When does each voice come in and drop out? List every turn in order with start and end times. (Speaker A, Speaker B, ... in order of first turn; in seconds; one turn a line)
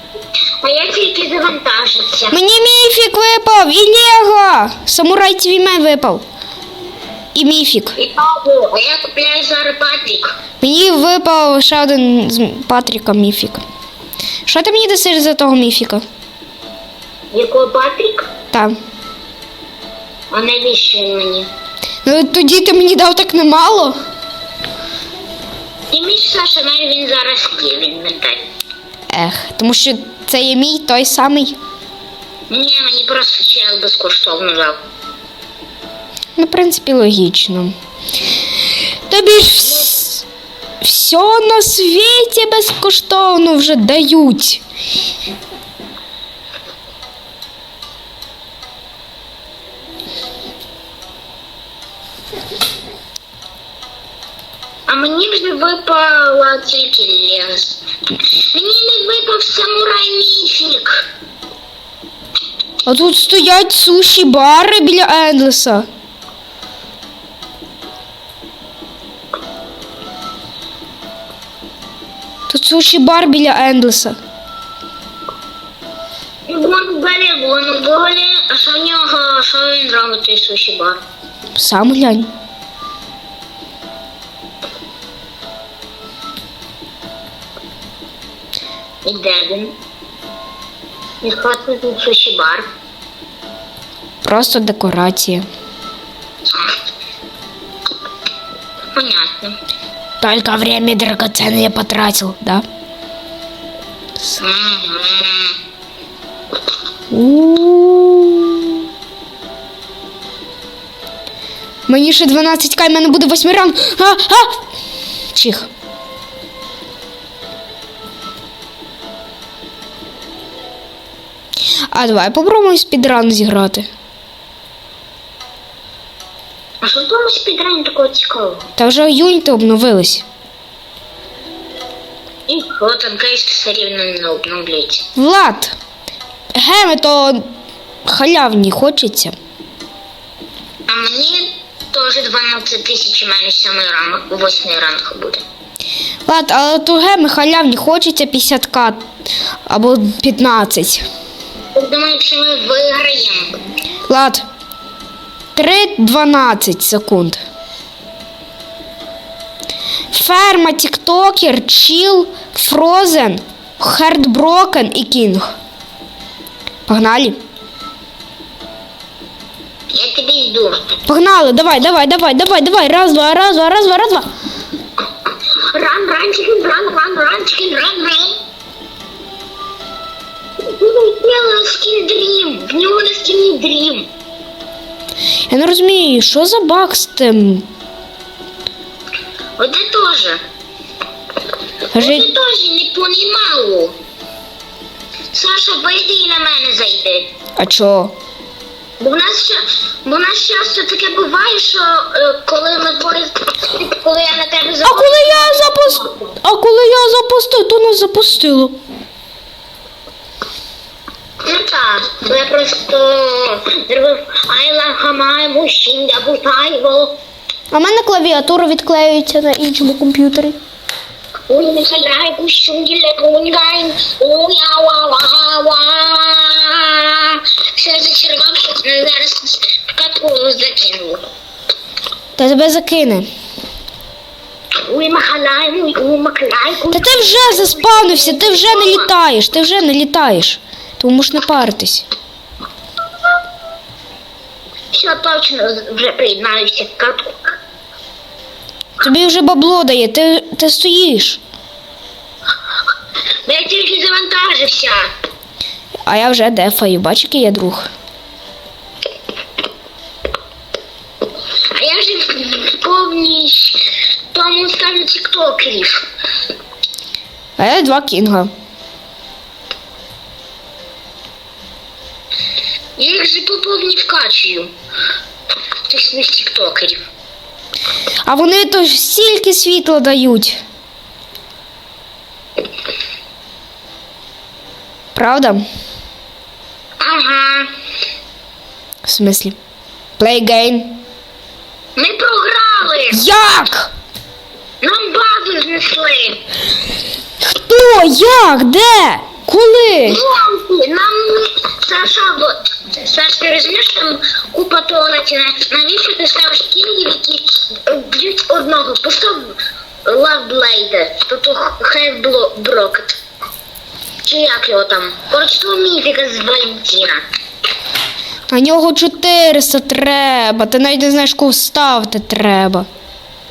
Speaker A: 0.6-2.4
Speaker B: 2.3-6.2
Speaker B: 7.3-8.0
Speaker A: 8.0-10.3
Speaker B: 10.6-13.6
Speaker B: 14.5-16.1
Speaker A: 17.3-18.3
Speaker A: 20.3-21.5
Speaker B: 22.1-24.0
Speaker A: 25.9-28.4
Speaker B: 29.1-31.6
Speaker A: 32.5-34.8
Speaker B: 36.4-37.7
Speaker B: 39.1-40.2
Speaker B: 40.8-44.6
Speaker A: 54.9-57.8
Speaker A: 58.5-61.0
Speaker B: 62.9-65.9
Speaker B: 72.5-74.2
Speaker A: 76.5-81.0
Speaker B: 81.5-82.3
Speaker A: 89.0-89.8
Speaker A: 91.2-92.7
Speaker B: 94.2-95.5
Speaker A: 98.9-99.6
Speaker B: 100.2-102.7
Speaker A: 104.4-105.6
Speaker B: 107.1-108.8
Speaker B: 111.9-114.6
Speaker B: 115.3-115.7
Speaker B: 121.9-123.9
Speaker A: 126.8-128.7
Speaker B: 128.8-130.2
Speaker A: 132.5-135.1
Speaker B: 135.2-135.8
Speaker B: 136.6-137.5
Speaker B: 138.1-139.3
Speaker A: 140.9-145.4
Speaker B: 146.3-149.0
Speaker B: 149.7-151.1
Speaker A: 151.8-153.6
Speaker B: 154.1-154.4
Speaker B: 155.6-157.4
Speaker B: 160.1-165.5
Speaker B: 166.9-167.4
Speaker A: 169.9-170.8
Speaker B: 171.1-174.3
Speaker A: 175.7-178.4
Speaker A: 180.6-184.1
Speaker B: 185.5-187.7
Speaker A: 189.6-190.4
Speaker A: 191.9-193.9
Speaker B: 191.9-192.3
Speaker A: 195.3-197.3
Speaker B: 197.6-198.1
Speaker A: 199.0-206.3
Speaker B: 204.8-208.8
Speaker A: 211.4-217.2
Speaker B: 217.7-220.6
Speaker A: 221.5-231.2
Speaker B: 232.4-233.3
Speaker A: 234.8-239.1
Speaker B: 236.9-242.1
Speaker A: 244.9-247.6
Speaker B: 249.0-251.4
Speaker A: 253.4-255.1
Speaker B: 256.1-257.9
Speaker A: 261.7-266.1
Speaker B: 267.6-268.5
Speaker A: 273.0-274.7
Speaker A: 275.9-277.1
Speaker B: 278.2-280.6
Speaker B: 285.1-285.6
Speaker A: 287.0-287.7
Speaker B: 289.1-289.6
Speaker B: 290.2-291.0
Speaker A: 292.0-293.2
Speaker B: 293.1-293.9
Speaker A: 294.8-296.4
Speaker B: 297.4-300.2
Speaker A: 300.0-309.5
Speaker A: 310.1-313.2
Speaker A: 314.2-317.2
Speaker B: 318.5-322.9